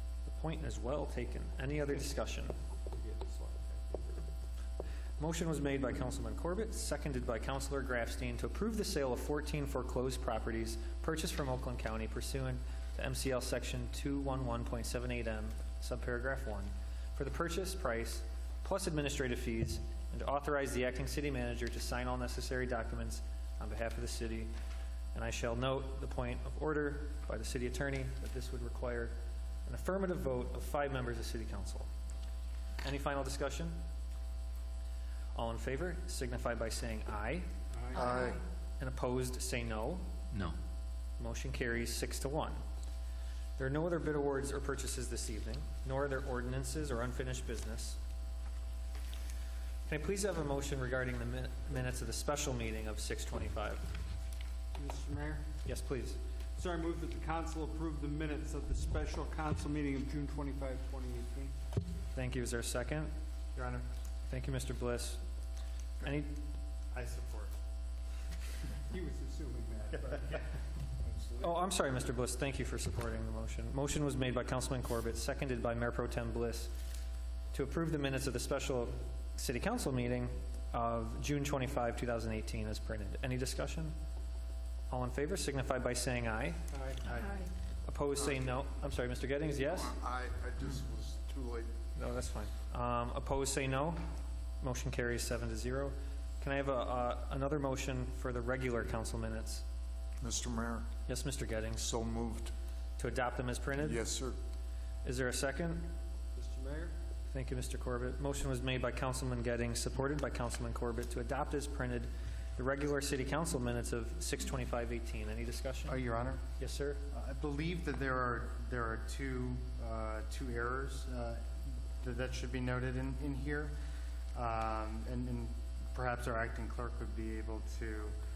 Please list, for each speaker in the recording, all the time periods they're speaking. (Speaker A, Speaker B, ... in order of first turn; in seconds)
Speaker A: 0.2-2.5, 5.2-24.5, 25.1-29.1, 29.6-31.9, 32.8-33.8, 35.3-38.2, 38.8-40.1, 41.2-42.6, 43.6-48.0, 49.9-53.8, 55.6-56.2, 62.1-63.1, 64.3-65.2, 66.0-66.3, 71.4-76.7, 77.5-83.9, 84.9-86.6, 87.8-90.0, 92.0-94.0, 94.6-99.6, 101.1-101.9, 103.0-104.0, 105.0-106.0, 107.3-116.0, 116.6-117.0
Speaker B: 2.9-4.3, 37.7-38.1, 54.7-55.4, 56.5-61.5, 68.8-70.5, 86.7-87.1, 106.3-107.0
Speaker C: 38.0-38.4, 89.8-91.7, 100.2-100.9, 101.8-102.5, 103.8-104.4
Speaker D: 63.5-63.8, 66.9-67.5, 115.9-116.4, 117.1-121.4, 122.0-123.7, 124.3-128.2